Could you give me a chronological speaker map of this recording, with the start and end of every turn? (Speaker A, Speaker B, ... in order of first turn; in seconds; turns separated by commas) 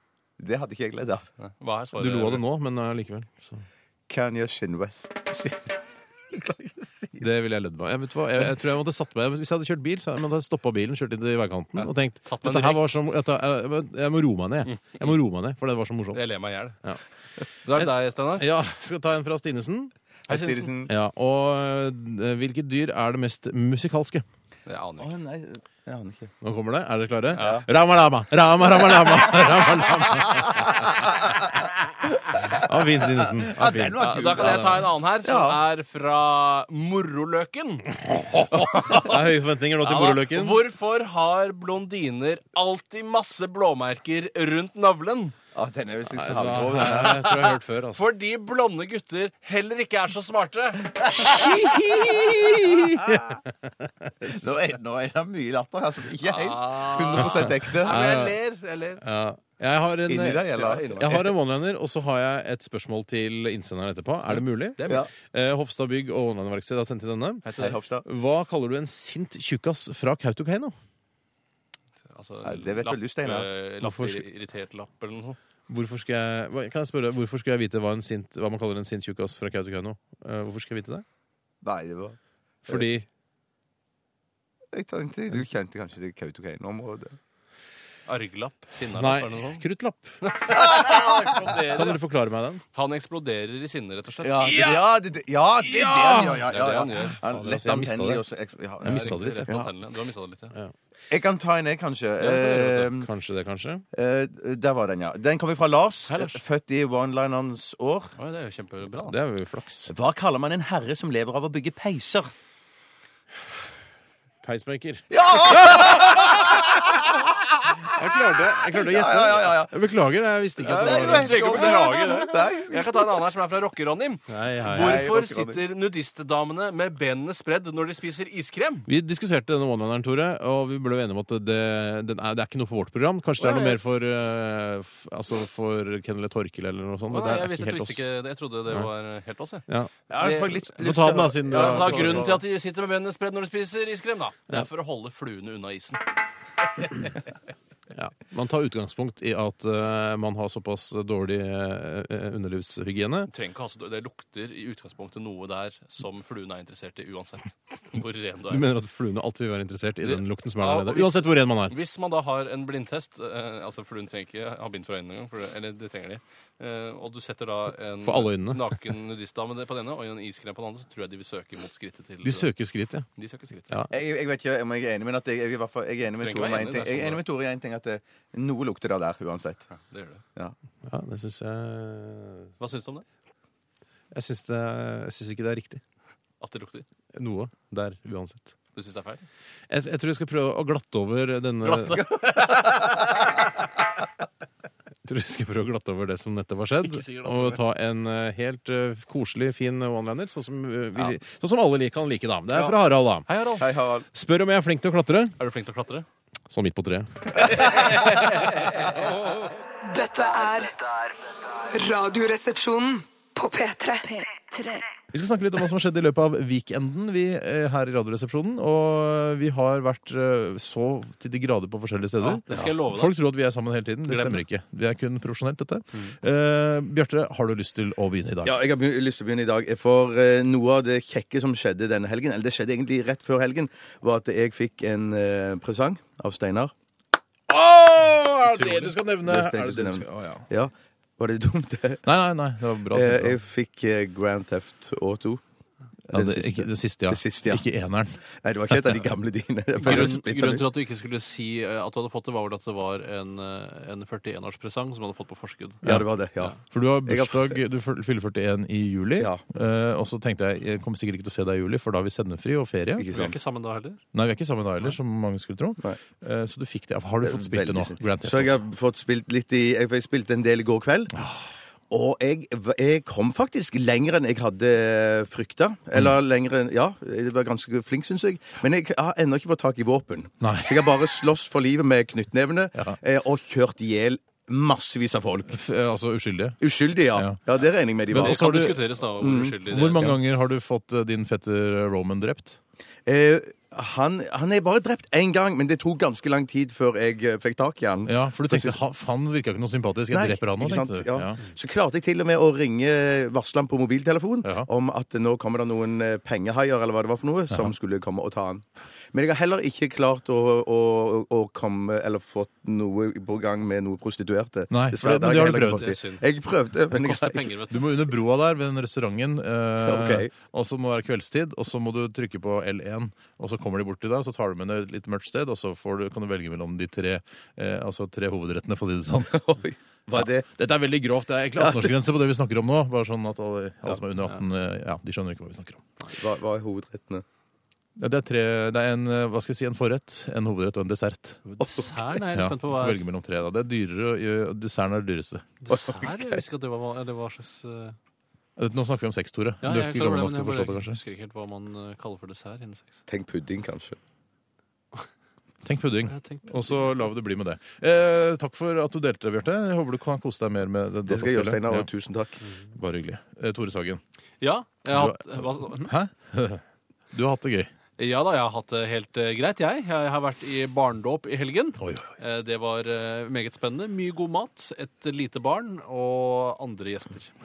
Speaker A: 0.4-1.3, Speaker B: 1.4-2.4, Speaker C: 2.0-3.6, Speaker A: 4.1-7.2, Speaker C: 7.2-16.2, Speaker B: 11.8-12.8, Speaker B: 14.6-15.0, Speaker B: 16.1-16.8, Speaker B: 17.6-18.5, Speaker C: 17.8-19.9, Speaker A: 20.3-20.9, Speaker B: 20.3-20.7, Speaker C: 20.9-24.2, Speaker B: 24.7-25.1, Speaker A: 25.0-26.3, Speaker C: 26.4-31.5, Speaker B: 27.3-27.6, Speaker A: 27.4-27.7, Speaker C: 32.4-34.9, Speaker A: 32.5-35.6, Speaker B: 34.0-37.9, Speaker C: 38.0-40.6, Speaker B: 38.5-45.3, Speaker A: 45.5-47.6, Speaker C: 46.1-48.0, Speaker B: 46.7-51.5, Speaker C: 51.2-54.4, Speaker A: 51.4-52.4, Speaker A: 53.0-53.4, Speaker A: 54.2-58.0, Speaker B: 56.2-59.0, Speaker C: 57.1-58.3, Speaker C: 59.0-67.5, Speaker A: 60.1-61.3, Speaker B: 60.6-61.2, Speaker B: 64.3-65.1, Speaker B: 67.5-67.8, Speaker A: 67.5-68.0, Speaker C: 68.0-70.7, Speaker B: 72.1-75.4, Speaker A: 72.4-73.5, Speaker C: 73.8-74.2, Speaker C: 75.7-81.0, Speaker A: 81.6-82.2, Speaker C: 82.7-83.0, Speaker A: 84.7-87.2, Speaker B: 88.0-89.6, Speaker C: 89.0-90.2, Speaker B: 90.2-92.0, Speaker A: 90.5-91.3, Speaker C: 91.7-92.6, Speaker B: 92.7-94.7, Speaker A: 94.2-99.7, Speaker C: 94.4-94.9, Speaker C: 95.6-96.5, Speaker B: 96.5-97.2, Speaker C: 97.0-98.2, Speaker C: 98.8-99.5, Speaker B: 98.8-100.5, Speaker A: 101.1-103.1, Speaker B: 102.2-102.9, Speaker C: 103.0-103.8, Speaker A: 103.9-108.1, Speaker B: 106.1-106.4, Speaker B: 108.2-109.2, Speaker C: 109.0-109.9, Speaker A: 109.9-112.3, Speaker C: 114.4-116.6, Speaker A: 115.1-117.0, Speaker C: 117.9-122.1, Speaker A: 118.5-119.7, Speaker B: 120.6-128.9, Speaker A: 120.7-123.2, Speaker C: 124.3-125.0, Speaker A: 124.7-125.6, Speaker C: 128.9-138.0, Speaker B: 133.4-133.8, Speaker B: 137.1-139.7, Speaker C: 139.7-142.4, Speaker A: 140.1-142.4, Speaker B: 140.2-140.7, Speaker B: 141.4-146.0, Speaker C: 147.9-153.3, Speaker B: 153.3-158.7, Speaker C: 158.5-161.8, Speaker B: 160.0-172.5, Speaker C: 168.0-168.7, Speaker C: 172.2-173.1, Speaker B: 173.2-173.8, Speaker A: 173.9-179.7, Speaker B: 176.2-177.2, Speaker B: 179.7-180.2, Speaker C: 180.9-182.5, Speaker B: 182.6-183.1, Speaker C: 184.1-185.8, Speaker B: 186.4-186.9, Speaker C: 187.1-188.6, Speaker B: 188.7-189.3, Speaker C: 189.7-192.1, Speaker B: 191.6-192.9, Speaker A: 192.1-193.2, Speaker C: 195.1-203.3, Speaker B: 196.8-197.6, Speaker A: 202.5-202.8, Speaker B: 203.3-203.7, Speaker A: 203.6-204.1, Speaker C: 204.1-205.4, Speaker B: 205.4-206.1, Speaker C: 206.5-208.0, Speaker D: 209.8-211.1, Speaker D: 211.6-214.9, Speaker C: 215.1-228.6, Speaker B: 222.2-223.2, Speaker B: 224.1-224.4, Speaker A: 228.4-236.7, Speaker C: 237.5-240.4, Speaker B: 238.4-239.0, Speaker A: 239.2-242.0, Speaker C: 242.1-243.4, Speaker A: 242.9-245.4, Speaker A: 246.1-247.7, Speaker C: 246.1-248.2, Speaker A: 248.4-250.7, Speaker C: 248.7-249.1, Speaker B: 249.8-255.8, Speaker C: 249.8-250.1, Speaker A: 255.8-257.6, Speaker C: 256.7-263.3, Speaker A: 263.0-263.3, Speaker B: 263.1-264.0, Speaker C: 264.1-268.6, Speaker A: 267.2-271.1, Speaker C: 271.1-271.4, Speaker A: 271.9-285.6, Speaker C: 280.4-280.8, Speaker C: 285.5-286.6, Speaker A: 286.6-290.2, Speaker C: 288.1-288.8, Speaker B: 288.1-290.1, Speaker C: 289.6-292.6, Speaker A: 293.1-298.8, Speaker C: 298.1-301.4, Speaker A: 300.1-317.5, Speaker C: 314.7-315.9, Speaker B: 315.6-316.2, Speaker B: 316.9-317.9, Speaker C: 317.7-329.4, Speaker A: 319.8-320.3, Speaker A: 329.3-330.5, Speaker C: 330.1-335.9, Speaker A: 331.6-331.9, Speaker A: 336.1-337.2, Speaker C: 338.0-341.4, Speaker B: 341.5-343.1, Speaker A: 341.6-341.9, Speaker C: 342.3-345.5, Speaker B: 345.6-347.9, Speaker A: 345.7-346.4, Speaker C: 348.6-351.0, Speaker B: 349.6-353.0, Speaker A: 353.1-354.0, Speaker C: 355.6-361.9, Speaker B: 356.1-356.9, Speaker A: 361.1-362.4, Speaker C: 362.7-364.0, Speaker B: 364.4-365.9, Speaker C: 364.9-367.7, Speaker B: 368.0-377.3, Speaker C: 371.8-372.1